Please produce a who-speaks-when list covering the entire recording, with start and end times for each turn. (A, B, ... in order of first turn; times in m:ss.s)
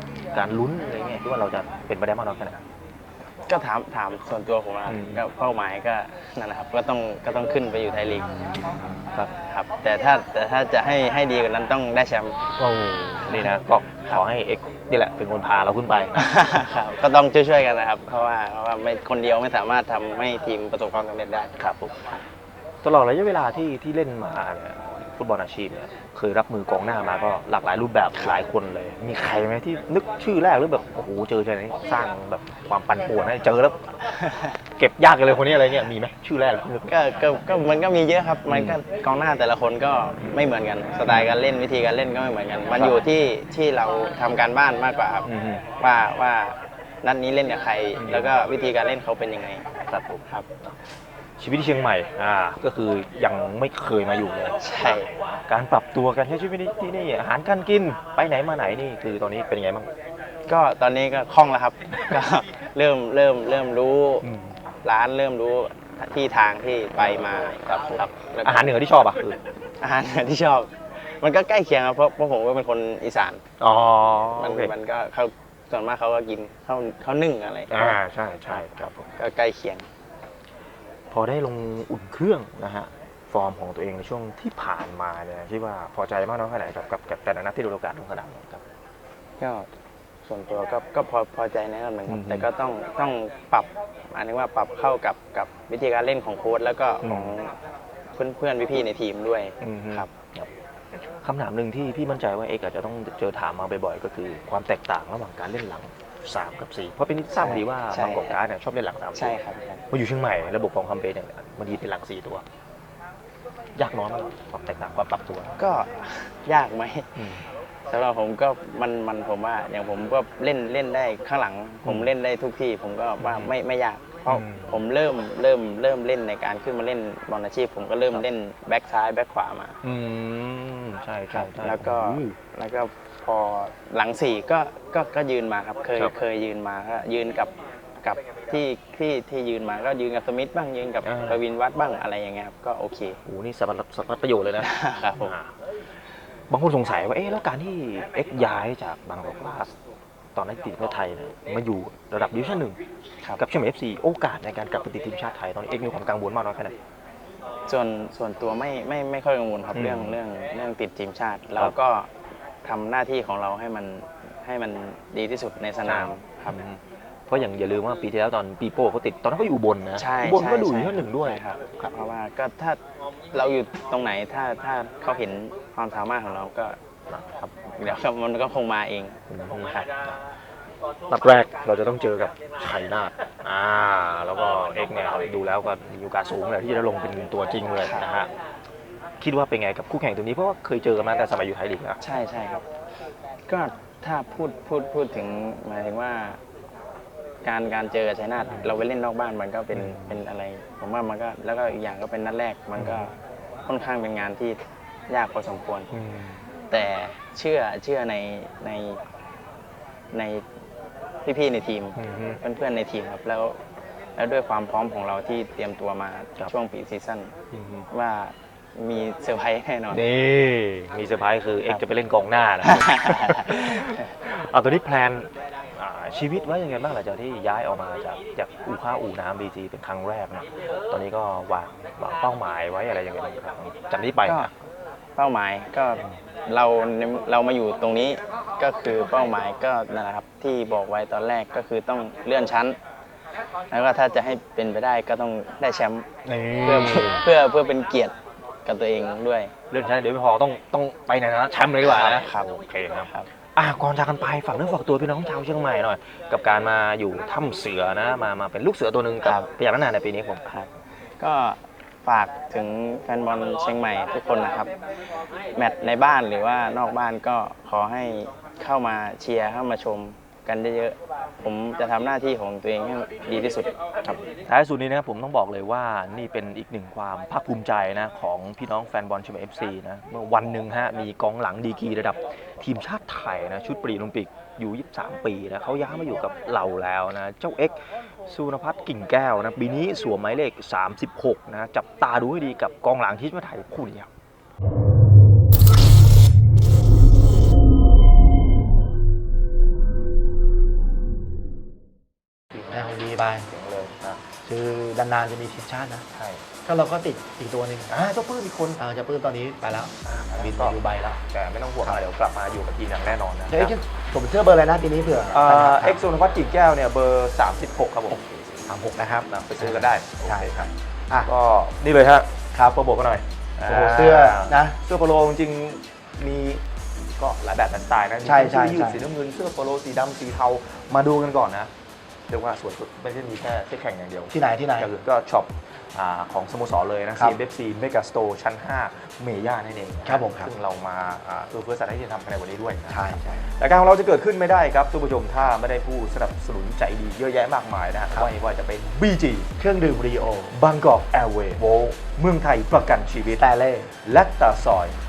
0:00.3-0:02.6 A
0:03.5-0:08.4 B
0:04.9-0:05.2 A
0:08.5-0:09.3 A
0:09.4-0:12.4 B
0:12.6-0:16.2 A
0:16.2-0:22.2 B
0:21.6-0:21.9 A
0:22.8-0:34.0 A
0:28.2-0:28.4 B
0:34.2-0:34.5 B
0:34.8-0:36.9 A
0:36.9-0:49.7 B
0:38.5-0:38.8 A
0:41.1-0:41.4 A
0:42.7-0:43.1 A
0:45.3-0:45.6 A
0:48.0-0:48.5 A
0:49.9-0:50.8 A
0:51.4-0:59.9 A
0:54.6-0:55.1 B
1:00.5-1:04.3 B
1:04.2-1:04.6 A
1:04.8-1:08.8 B
1:07.0-1:09.4 A
1:09.8-1:13.4 B
1:13.6-1:14.7 A
1:14.4-1:18.0 B
1:17.7-1:19.1 A
1:18.5-1:19.9 B
1:21.1-1:28.6 A
1:29.4-1:29.7 B
1:30.2-1:37.5 B
1:32.1-1:32.5 A
1:37.0-1:37.4 A
1:38.2-1:40.1 B
1:39.6-1:40.5 A
1:41.1-1:49.4 A
1:47.4-1:48.4 B
1:49.2-1:49.8 B
1:49.9-1:52.4 A
1:53.8-1:55.5 A
1:55.6-1:57.2 B
1:57.2-1:57.4 A
1:57.9-2:09.8 B
2:01.8-2:02.1 A
2:03.2-2:03.5 A
2:04.3-2:04.8 A
2:09.8-2:12.4 A
2:11.3-2:23.2 B
2:21.0-2:21.4 A
2:23.3-2:25.5 A
2:24.6-2:25.4 B
2:26.5-2:29.7 A
2:30.4-2:32.8 A
2:33.4-2:36.7 A
2:37.7-2:42.1 B
2:39.7-2:40.2 A
2:42.6-2:46.6 B
2:45.8-2:51.9 A
2:50.0-2:52.8 B
2:53.3-2:56.8 B
2:57.1-2:58.0 A
2:57.4-2:59.9 B
2:59.3-3:00.2 A
3:01.1-3:08.3 A
3:07.8-3:08.1 B
3:09.2-3:12.0 A
3:12.0-3:12.7 B
3:13.5-3:16.4 B
3:17.4-3:25.9 B
3:18.4-3:18.8 A
3:19.7-3:20.2 A
3:22.8-3:23.1 A
3:25.9-3:26.4 A
3:26.7-3:29.0 B
3:30.1-3:30.4 B
3:31.2-3:33.6 B
3:32.0-3:32.4 A
3:34.2-3:37.3 B
3:37.5-3:37.9 A
3:37.9-3:40.0 B
3:39.9-3:54.5 A
3:42.6-3:44.1 B
3:54.2-3:54.5 B
3:55.2-4:02.8 B
4:03.7-4:06.1 B
4:06.2-4:07.3 A
4:06.6-4:09.5 B
4:09.7-4:20.7 A
4:11.8-4:12.5 B
4:21.2-4:24.7 B
4:25.6-4:34.2 B
4:34.4-4:54.1 A
5:02.5-5:02.9 A
5:02.7-5:03.5 C
5:03.4-5:04.2 A
5:04.4-5:06.0 C
5:06.2-5:06.4 A
5:06.7-5:07.9 C
5:07.9-5:08.8 A
5:08.8-5:11.2 C
5:10.0-5:13.8 A
5:13.5-5:16.0 C
5:15.3-5:18.7 A
5:18.7-5:21.3 C
5:19.2-5:20.7 A
5:21.2-5:26.6 A
5:22.6-5:22.8 C
5:23.7-5:24.8 C
5:27.2-5:31.7 A
5:28.2-5:29.0 C
5:32.3-5:49.5 A
5:34.3-5:34.9 C
5:40.1-5:40.5 C
5:42.9-5:43.5 C
5:49.6-5:50.6 C
5:50.5-5:53.4 A
5:53.4-5:53.9 C
5:54.0-5:55.0 A